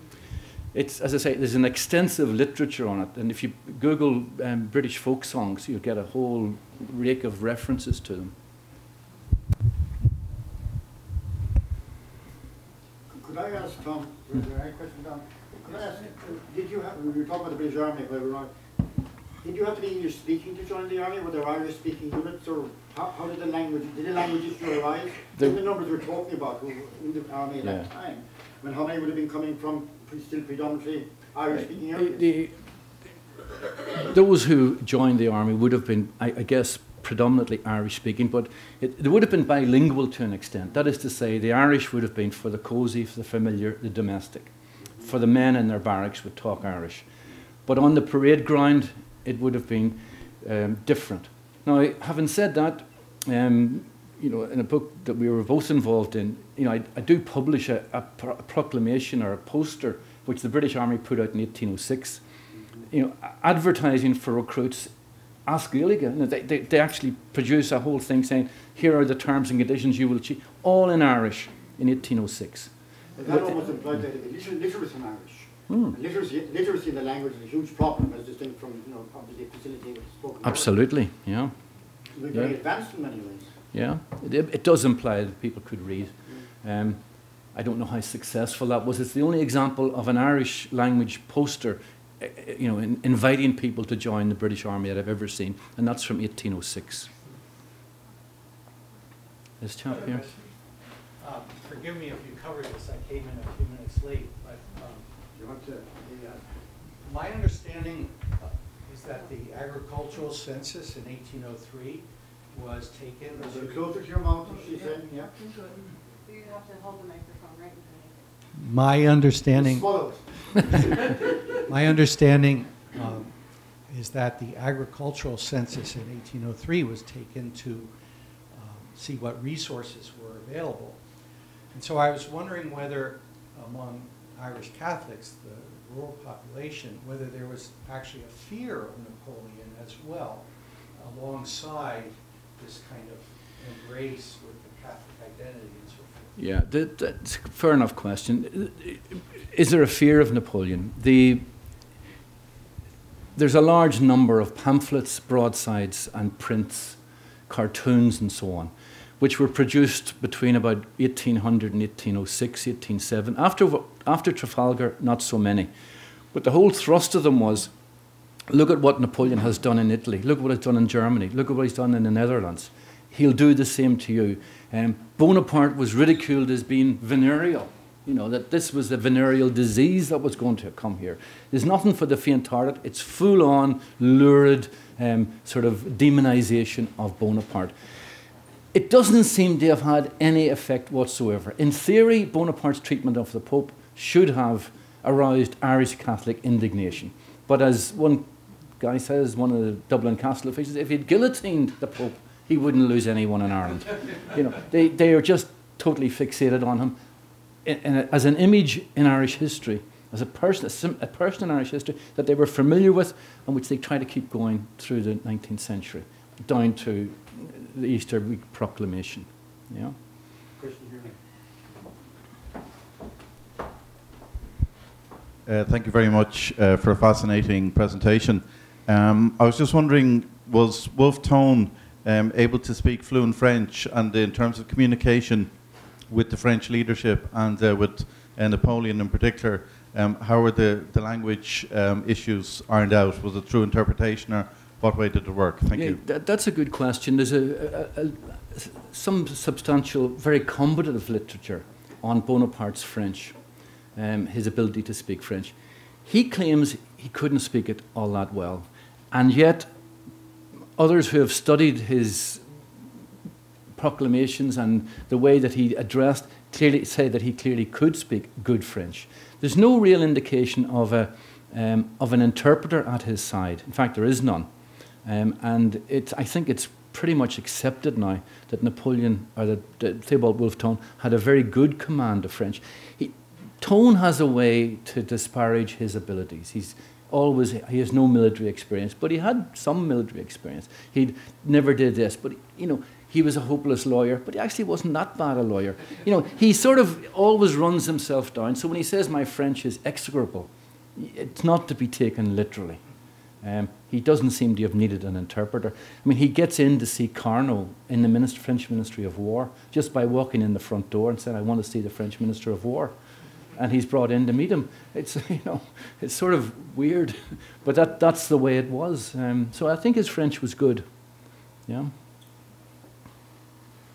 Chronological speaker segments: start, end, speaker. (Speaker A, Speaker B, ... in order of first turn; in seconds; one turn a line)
Speaker A: 0.7-8.3
Speaker B: 13.1-18.5
Speaker B: 19.4-32.3
Speaker A: 27.6-27.9
Speaker A: 31.5-32.5
Speaker A: 33.9-47.0
Speaker A: 47.6-62.2
Speaker A: 62.9-64.9
Speaker A: 65.5-72.7
Speaker B: 73.2-80.8
Speaker A: 73.2-73.6
Speaker A: 75.7-76.0
Speaker A: 80.4-81.5
Speaker B: 82.1-83.5
Speaker A: 83.7-87.0
Speaker A: 87.5-97.1
Speaker A: 99.6-100.3
Speaker C: 99.9-100.4
Speaker C: 101.2-105.0
Speaker B: 105.3-106.4
Speaker C: 107.0-114.0
Speaker B: 113.3-115.3
Speaker D: 115.3-118.2
Speaker C: 118.6-120.1
Speaker B: 119.5-120.8
Speaker C: 121.7-123.3
Speaker C: 123.9-127.9
Speaker C: 128.5-131.0
Speaker C: 131.7-146.3
Speaker A: 146.4-151.4
Speaker A: 153.3-165.7
Speaker A: 166.3-167.7
Speaker A: 168.5-187.7
Speaker A: 188.7-207.0
Speaker A: 207.6-219.9
Speaker B: 220.6-221.1
Speaker E: 225.4-246.0
Speaker A: 245.7-253.4
Speaker A: 253.9-255.5
Speaker A: 256.0-259.7
Speaker A: 260.8-262.4
Speaker A: 263.7-274.5
Speaker A: 275.0-302.8
Speaker A: 303.4-312.9
Speaker A: 313.6-320.9
Speaker A: 321.6-321.9